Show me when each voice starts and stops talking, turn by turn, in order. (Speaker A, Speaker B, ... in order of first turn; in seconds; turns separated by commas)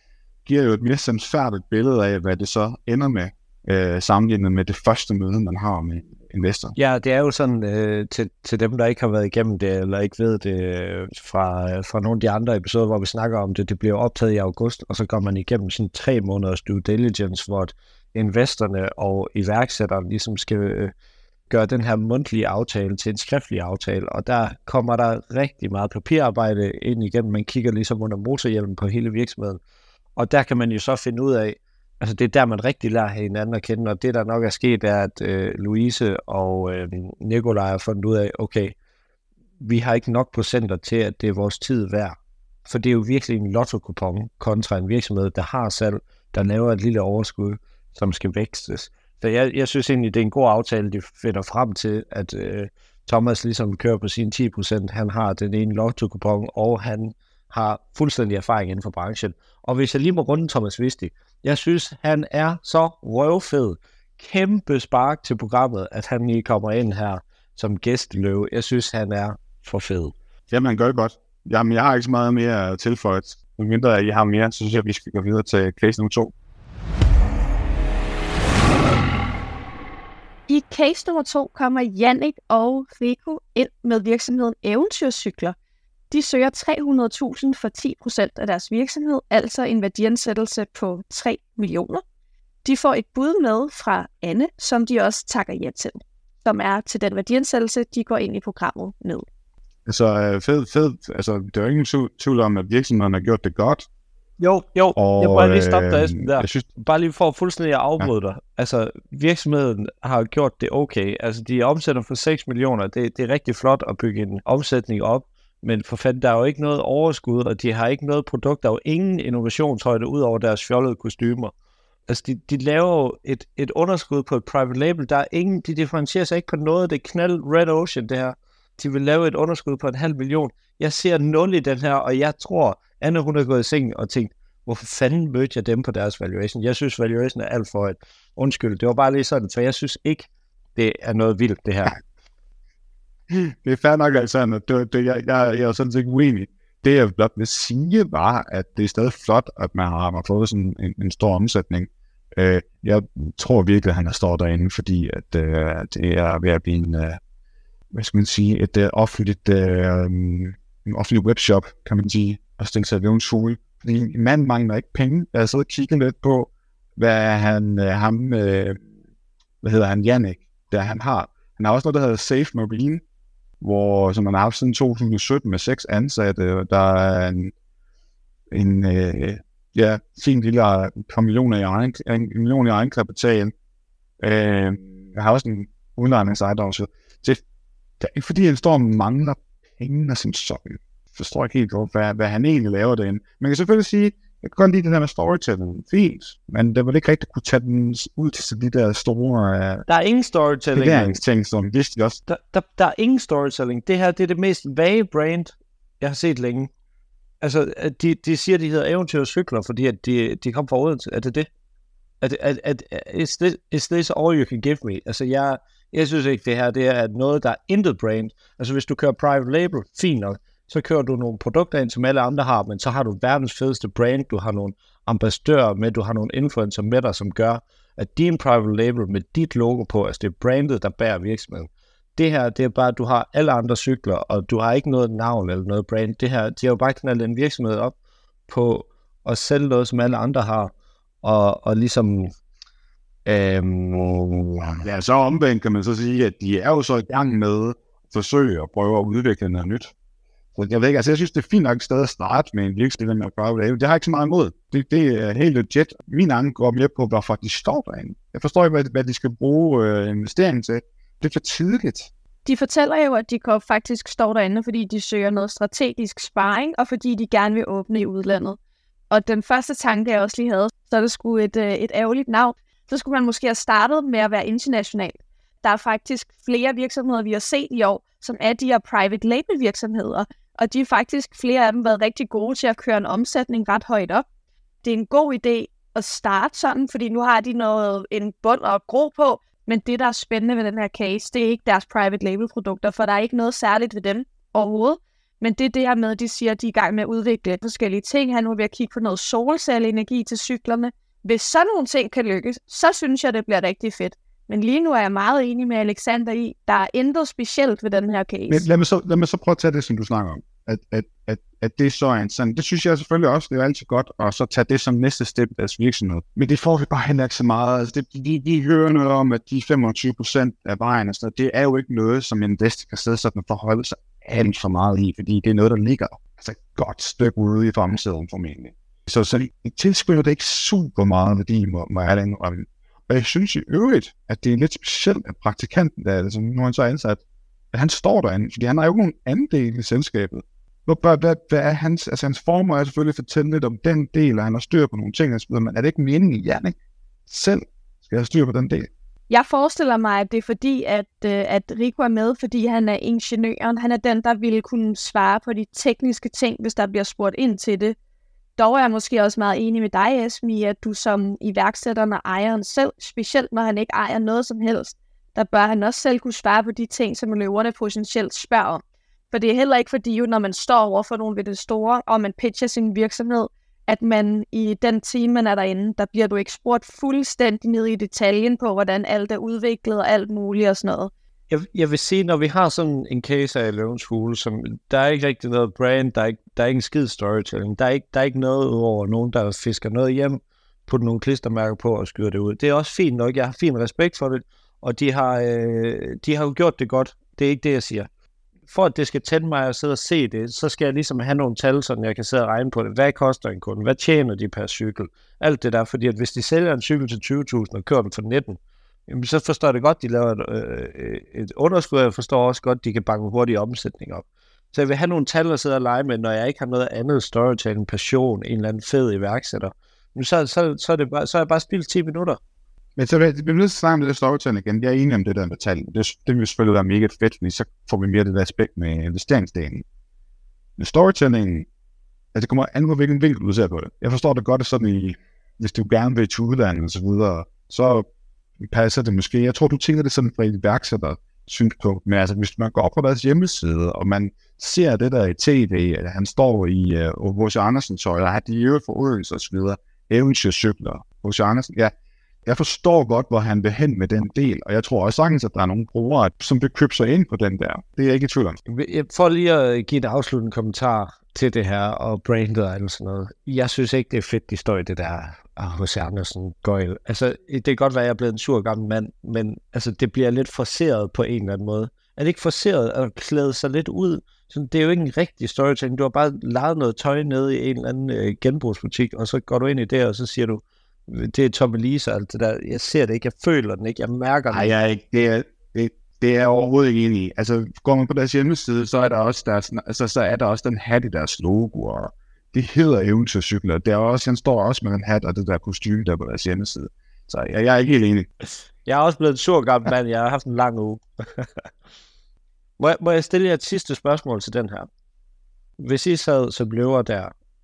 Speaker A: 0.5-6.7, Speaker B: 6.8-20.9, Speaker B: 21.5-29.6, Speaker B: 30.2-38.7, Speaker B: 39.6-70.1, Speaker A: 70.5-76.3, Speaker C: 80.5-85.5, Speaker C: 86.1-92.0, Speaker C: 92.6-99.2, Speaker A: 99.9-103.9, Speaker B: 104.4-121.5, Speaker A: 105.0-106.7, Speaker B: 122.1-141.9, Speaker A: 143.3-157.2, Speaker A: 157.9-168.8, Speaker A: 169.6-173.0, Speaker A: 173.6-177.5, Speaker A: 178.5-183.5, Speaker A: 184.2-187.4, Speaker A: 188.0-199.8, Speaker B: 199.9-201.2, Speaker A: 200.7-202.2, Speaker B: 202.3-206.7, Speaker B: 207.4-211.5, Speaker B: 212.2-237.9, Speaker B: 238.5-240.7, Speaker B: 241.2-242.3, Speaker B: 243.2-244.5, Speaker A: 244.6-249.9, Speaker A: 250.6-262.1, Speaker C: 262.4-268.6, Speaker C: 269.1-284.2, Speaker C: 284.8-308.6, Speaker A: 308.5-337.2, Speaker A: 337.7-346.7, Speaker A: 347.3-348.9, Speaker C: 349.3-357.9, Speaker C: 358.6-381.1, Speaker B: 381.5-398.1, Speaker B: 398.7-422.4, Speaker A: 423.0-429.8, Speaker A: 430.8-431.7, Speaker A: 432.3-438.1, Speaker A: 438.6-451.9, Speaker A: 452.4-458.6, Speaker B: 458.7-484.7, Speaker A: 484.5-498.3, Speaker B: 498.5-501.7, Speaker B: 502.8-504.9, Speaker B: 505.8-507.3